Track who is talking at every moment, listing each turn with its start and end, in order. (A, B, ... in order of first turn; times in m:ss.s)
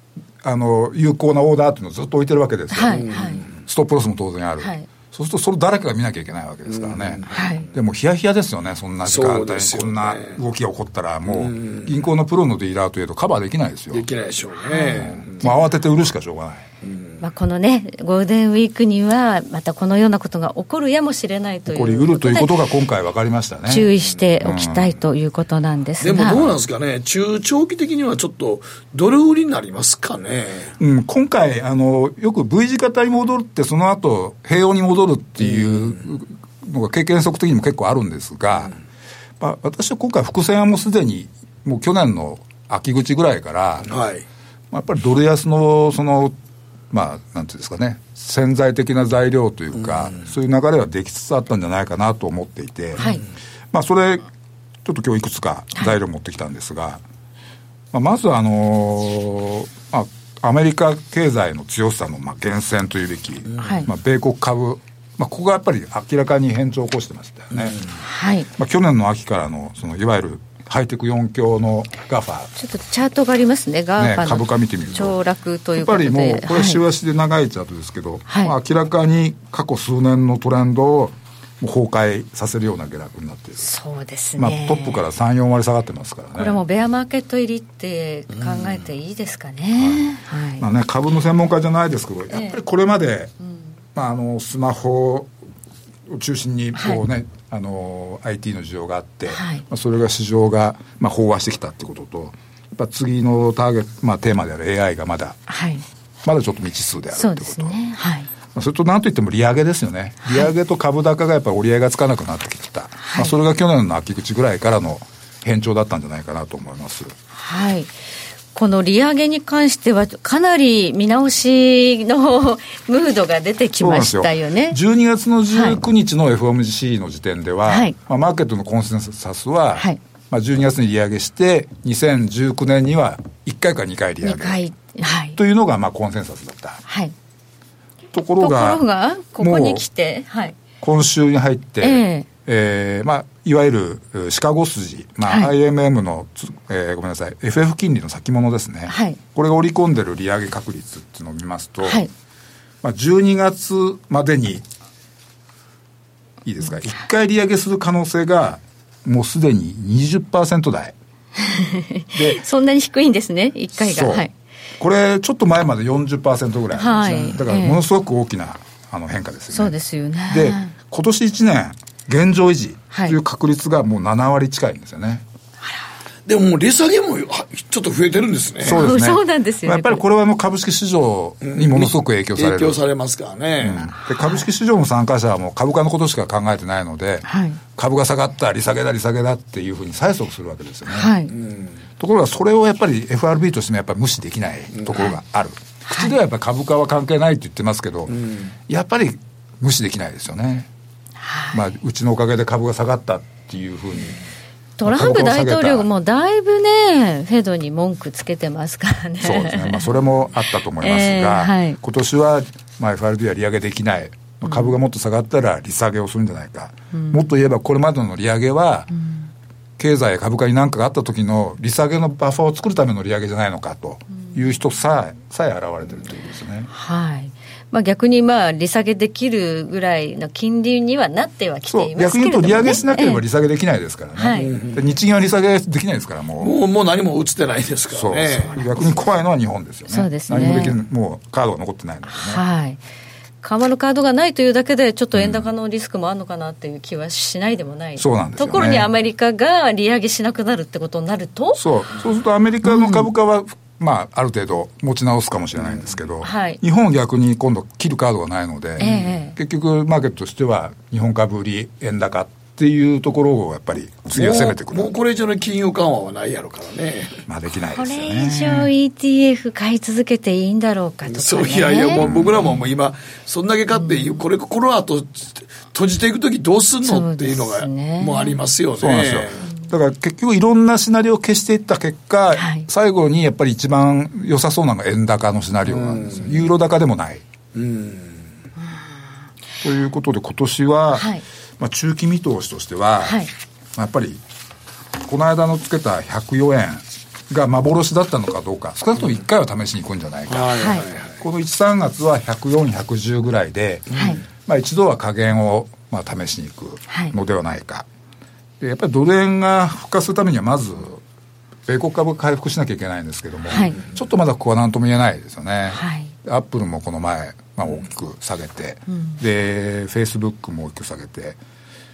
0:00.4-0:14.1 A
0:02.7-0:03.4 B
0:02.9-0:03.5 C
0:04.6-0:04.8 B
0:06.7-0:07.5 C
0:07.3-0:07.7 B
0:09.0-0:10.4 C
0:11.3-0:11.9 C
0:13.9-0:15.5 C
0:14.6-0:15.6 B
0:14.9-0:16.7 A
0:16.8-0:17.2 C
0:17.2-0:22.6 B
0:21.7-0:25.0 A
0:23.7-0:26.5 B
0:26.0-0:30.7 C
0:30.8-0:38.7 A
0:35.4-0:36.0 C
0:39.4-0:43.9 A
0:43.9-0:44.2 C
0:44.7-0:46.3 A
0:46.9-0:53.0 A
0:49.8-0:50.3 C
0:53.7-0:54.3 A
0:54.8-0:57.0 A
0:57.9-1:07.8 A
1:03.6-1:03.9 B
1:07.5-1:07.9 C
1:08.0-1:08.5 B
1:08.6-1:12.5 A
1:12.6-1:16.8 B
1:14.0-1:15.2 A
1:15.8-1:23.7 A
1:18.3-1:18.5 B
1:23.6-1:25.0 B
1:24.4-1:26.6 A
1:26.3-1:30.6 B
1:29.8-1:30.0 A
1:30.6-1:33.3 A
1:32.3-1:32.6 B
1:33.9-1:35.3 A
1:36.1-1:45.4 A
1:36.7-1:37.0 B
1:39.3-1:39.6 B
1:45.5-1:45.8 B
1:46.2-1:47.8 A
1:47.1-1:48.3 B
1:48.5-1:57.1 A
1:53.0-1:53.3 B
1:57.3-1:57.9 B
1:58.5-2:04.8 B
2:03.8-2:14.6 A
2:05.5-2:05.8 B
2:07.7-2:07.9 B
2:14.2-2:15.4 B
2:15.4-2:16.8 A
2:16.9-2:17.1 B
2:18.1-2:18.8 A
2:18.4-2:20.6 B
2:19.4-2:19.8 A
2:20.8-2:32.0 A
2:21.8-2:22.2 B
2:25.2-2:25.5 B
2:28.9-2:29.2 B
2:31.8-2:32.1 B
2:32.8-2:34.6 A
2:36.4-2:40.9 A
2:41.4-2:44.3 B
2:42.1-2:42.4 A
2:43.8-2:44.2 A
2:44.8-2:55.2 A
2:46.8-2:47.8 B
2:49.5-2:50.7 B
2:56.3-2:58.8 C
2:58.6-3:02.8 A
2:58.7-3:00.0 B
3:01.4-3:03.9 C
3:03.6-3:11.1 A
3:04.1-3:04.4 B
3:07.2-3:07.6 B
3:10.9-3:11.3 B
3:11.3-3:11.8 C
3:12.0-3:18.2 A
3:14.7-3:15.0 C
3:15.9-3:16.1 B
3:18.1-3:18.5 C
3:18.7-3:20.7 A
3:21.2-3:21.6 B
3:21.5-3:24.2 A
3:24.8-3:29.9 B
3:24.8-3:25.9 A
3:29.2-3:38.9 A
3:30.8-3:31.8 B
3:34.4-3:34.7 B
3:36.9-3:37.2 B
3:39.8-3:46.7 A
3:46.7-3:53.2 B
3:51.7-3:56.5 A
3:54.2-3:54.5 B
3:54.4-3:54.8 C
3:56.4-3:58.6 C
3:57.9-4:02.4 A
3:59.9-4:00.8 B
4:02.1-4:02.8 B
4:03.4-4:11.6 B
4:05.1-4:05.5 A
4:08.0-4:08.9 A
4:11.6-4:24.9 A
4:12.6-4:13.1 B
4:15.6-4:15.8 C
4:16.2-4:16.6 B
4:18.8-4:19.3 B
4:24.1-4:27.2 C
4:27.3-4:28.7 A
4:27.7-4:32.6 B
4:31.0-4:39.5 C
4:32.0-4:32.5 A
4:33.7-4:34.2 B
4:36.8-4:38.4 B
4:38.8-4:47.2 A
4:42.3-4:42.7 B
4:45.6-4:46.5 C
4:47.5-4:48.3 C
4:49.6-4:53.2 A
4:50.9-4:51.2 B
4:53.0-4:53.3 B
4:53.8-4:54.2 A
4:55.0-5:07.9 A
5:00.3-5:01.2 C
5:00.6-5:00.9 B
5:03.9-5:04.2 C
5:08.6-5:11.0 A
5:11.7-5:21.4 A
5:13.5-5:13.8 B
5:15.7-5:16.1 B